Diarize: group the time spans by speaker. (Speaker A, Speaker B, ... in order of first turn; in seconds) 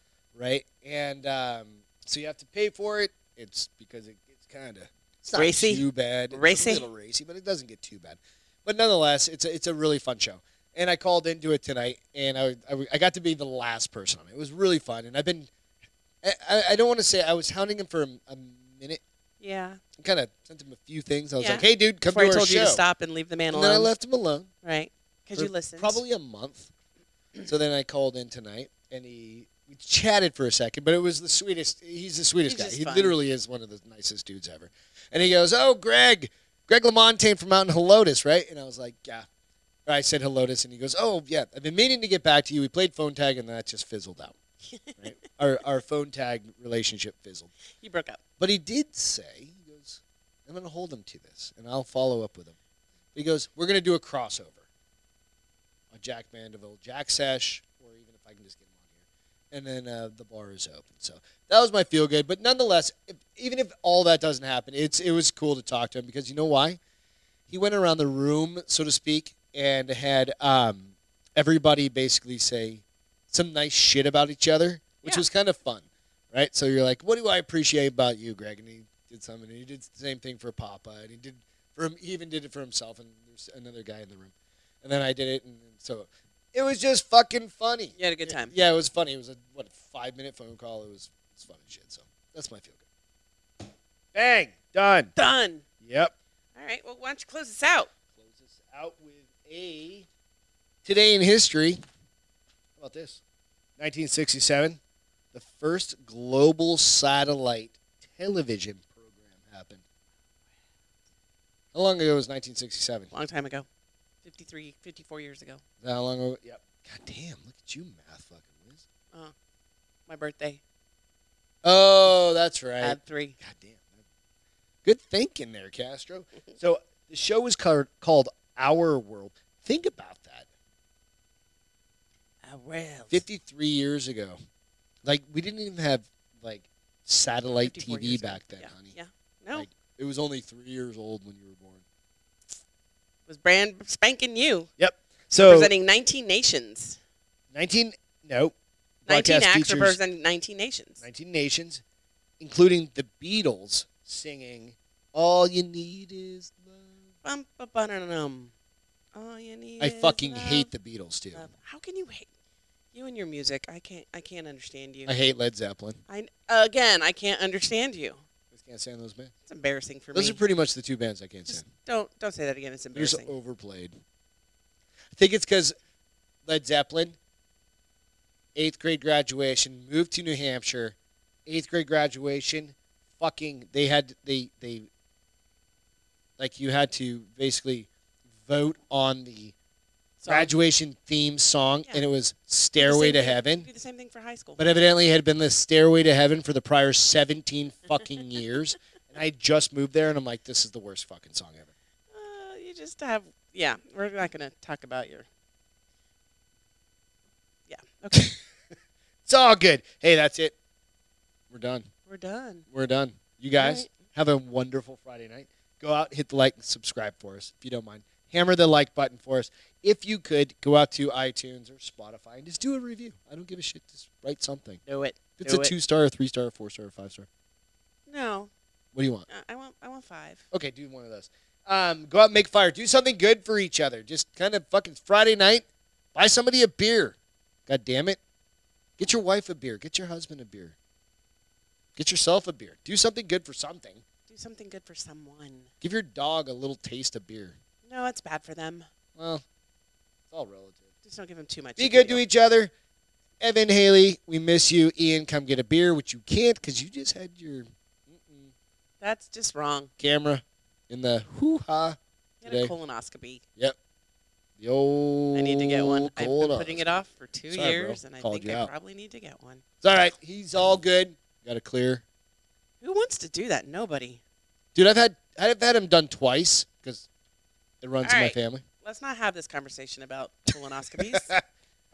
Speaker A: 0.3-15.5, 16.2-19.0, 20.0-22.8, 23.5-24.5, 25.4-26.7, 27.4-39.3, 39.9-44.4, 45.0-47.5, 48.4-52.6, 53.1-54.6, 55.9-58.9, 59.5-66.8, 67.5-92.8, 94.1-95.1, 95.8-96.1, 98.1-100.1, 100.8-101.8, 102.8-103.2, 103.8-104.8, 105.3-109.8, 111.7-113.1, 115.8-118.8, 121.6-123.9, 124.8-130.5, 133.1-134.3, 135.0-138.9, 139.6-141.8, 144.8-145.7, 147.5-150.0, 151.0-151.8, 152.4-157.1, 159.8-161.5, 165.1-166.0, 168.5-169.3, 170.1-171.7, 172.9-174.0, 175.1-175.7, 176.4-177.2, 178.6-184.9, 186.4-187.9, 188.4-189.6, 190.3-193.7, 194.6-201.7, 209.3-210.5, 211.5-211.9, 212.7-224.8, 225.4-227.3, 228.9-229.3, 230.5-237.2, 237.7-238.2, 239.0-240.8, 241.9-244.0, 245.8-247.6, 249.2-249.4, 250.3-250.8, 251.8-252.7, 253.4-258.5, 260.0-262.7, 264.6-266.9, 267.5-268.7, 269.8-272.0, 274.7-277.1, 277.8-278.6, 281.0-281.4
Speaker B: 5.3-6.8, 19.4-19.8, 21.4-23.9, 24.6-26.0, 32.5-33.1, 44.6-45.0, 47.7-48.2, 88.0-88.5, 95.2-95.6, 96.5-97.9, 113.1-113.7, 114.2-115.6, 120.1-120.6, 122.8-123.3, 132.4-133.2, 137.6-139.7, 143.3-144.7, 145.4-147.0, 149.1-151.0, 157.2-158.5, 159.1-160.7, 161.3-162.3, 162.9-165.1, 166.1-168.2, 169.5-170.4, 171.5-173.3, 190.2-190.5, 192.8-194.6, 202.1-205.3, 207.7-208.3, 212.1-212.7, 213.6-213.9, 224.9-225.7, 228.1-228.5, 229.3-230.4, 244.3-245.7, 247.8-248.9, 251.0-252.2, 259.0-259.9, 262.4-263.4, 265.3-269.6, 272.8-274.2, 278.0-281.3